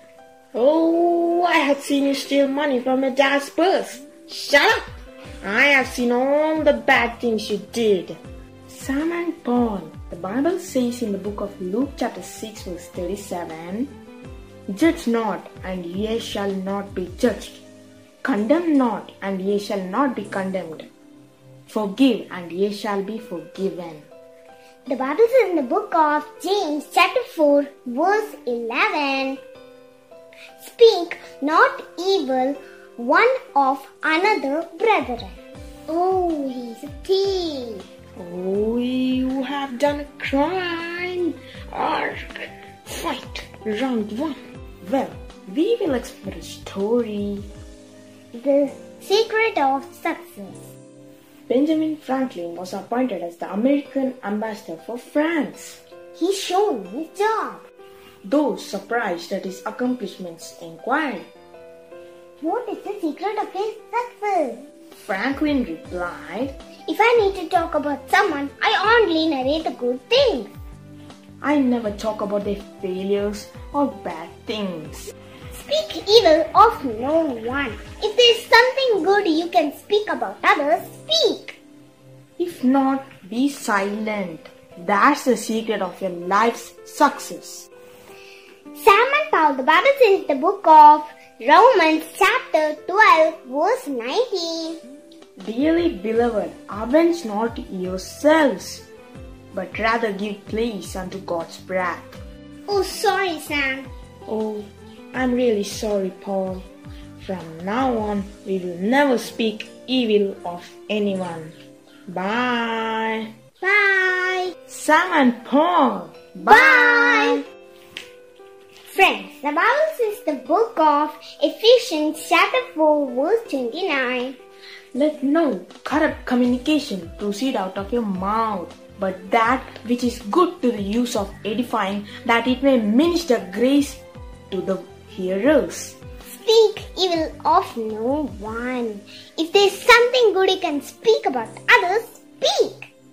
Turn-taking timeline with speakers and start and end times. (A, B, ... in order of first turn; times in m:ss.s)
0:00.5-0:04.9 A
0:05.4-0:13.9 A
0:14.7-0:17.6 A
0:18.2-0:20.9 A
0:21.7-0:24.0 A
0:24.9-0:29.4 B
0:30.6-0:35.4 B
0:35.9-0:37.8 B
0:38.2-0:47.5 A
0:48.3-0:50.7 B
0:51.5-0:55.8 A
0:56.2-0:57.6 B
0:58.2-1:01.3 A
1:02.4-1:04.6 B
1:05.0-1:06.5 A
1:06.9-1:10.5 B
1:11.4-1:15.1 A
1:15.5-1:21.6 B
1:22.4-1:27.7 A
1:28.7-1:34.8 B
1:35.4-1:38.8 A
1:39.5-1:42.2 A
1:42.7-1:43.9 B
1:44.3-1:46.6 A
1:47.2-1:51.5 A
1:52.1-1:53.3 A
1:53.6-1:54.6 B
1:54.7-1:57.4 A
1:56.4-1:57.4 B
1:58.9-2:04.4 B
2:04.9-2:16.0 A
2:16.3-2:22.9 B